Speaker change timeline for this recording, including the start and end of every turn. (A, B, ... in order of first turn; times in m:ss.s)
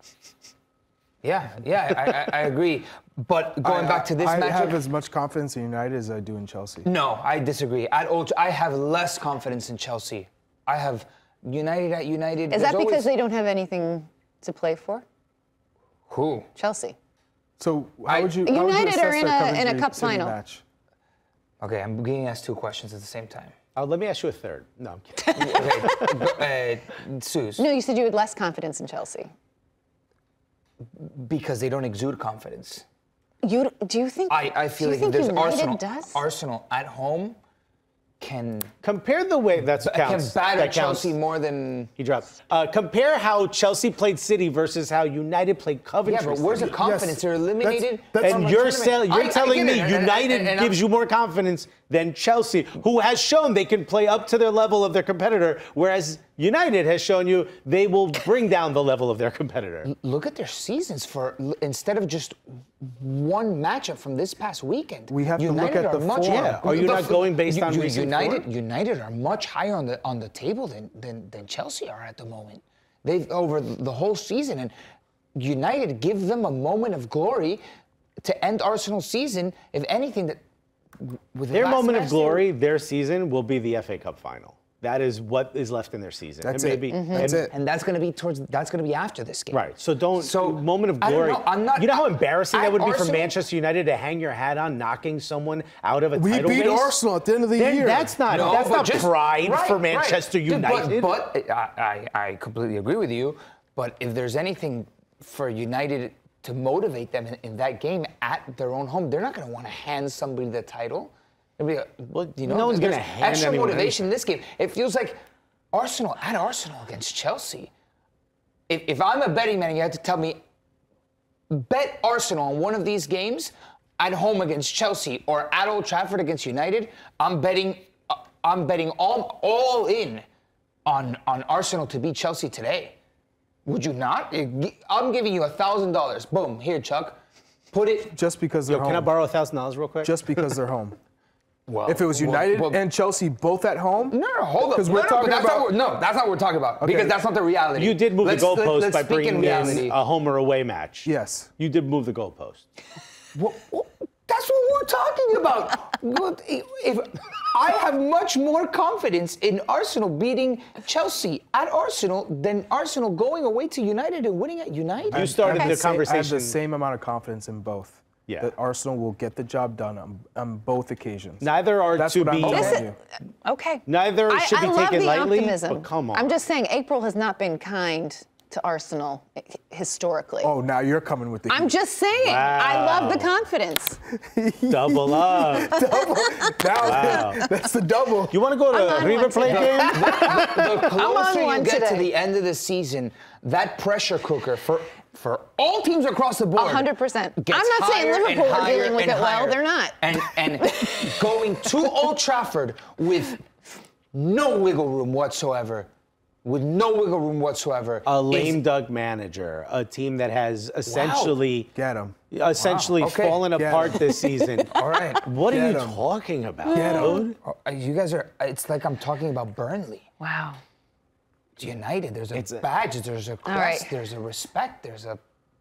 0:01.2-0:04.8 A
0:03.6-0:06.9 B
0:06.8-0:13.1 A
0:12.5-0:15.0 C
0:16.1-0:16.5 A
0:16.6-0:17.0 C
0:17.6-0:20.6 B
0:18.1-0:18.4 A
0:18.4-0:20.4 C
0:21.6-0:23.5 A
0:23.8-0:26.1 D
0:25.3-0:25.9 C
0:25.4-0:27.6 A
0:27.6-0:29.3 C
0:30.9-0:32.8 A
0:33.4-0:36.2 C
0:34.3-0:37.4 A
0:38.2-0:38.7 A
0:38.8-0:41.2 D
0:39.8-0:41.9 A
0:42.0-0:46.8 D
0:46.0-0:50.8 A
0:46.8-0:48.5 B
0:48.2-0:59.9 D
0:59.8-1:14.7 A
1:05.1-1:06.7 B
1:06.2-1:08.5 D
1:15.4-1:17.6 A
1:18.2-1:20.4 A
1:21.0-1:22.4 A
1:21.5-1:27.5 D
1:26.4-1:27.5 B
1:27.1-1:33.4 A
1:29.5-1:36.9 D
1:36.1-1:38.6 B
1:37.6-1:41.1 D
1:38.3-1:55.2 A
1:52.1-1:54.1 D
1:55.7-1:57.7 A
1:58.7-2:00.4 A
2:01.5-2:10.2 A
2:10.8-2:13.0 A
2:13.6-2:17.2 A
2:17.7-2:18.1 A
2:18.1-2:19.1 B
2:18.7-2:20.2 D
2:20.0-2:21.0 B
2:21.7-2:22.8 A
2:21.9-2:24.2 B
2:24.1-2:30.0 A
2:24.7-2:25.7 B
2:26.8-2:27.1 B
2:27.7-2:32.6 D
2:31.0-2:31.5 B
2:33.3-2:45.4 A
2:45.1-2:53.0 B
2:45.1-2:46.5 D
2:51.4-2:52.8 D
2:52.4-2:52.8 A
2:52.5-2:52.9 C
2:53.4-3:00.5 C
2:53.9-2:56.4 D
3:00.4-3:01.7 B
3:01.5-3:04.0 C
3:02.2-3:03.3 D
3:04.1-3:08.4 B
3:04.7-3:05.8 D
3:06.0-3:07.1 C
3:06.8-3:07.4 D
3:08.3-3:10.9 D
3:08.7-3:12.1 C
3:09.4-3:23.5 A
3:16.6-3:21.2 C
3:24.1-3:25.9 A
3:26.4-3:28.6 A
3:28.0-3:31.7 D
3:30.8-3:31.4 A
3:31.7-3:32.2 B
3:32.3-3:37.4 D
3:32.6-3:33.5 A
3:33.5-3:34.0 B
3:34.8-3:35.3 A
3:35.5-3:36.0 B
3:36.7-3:37.2 C
3:36.7-3:37.2 B
3:37.4-3:40.1 A
3:40.2-3:40.6 C
3:41.6-3:45.2 A
3:42.3-3:42.6 D
3:43.5-3:43.9 C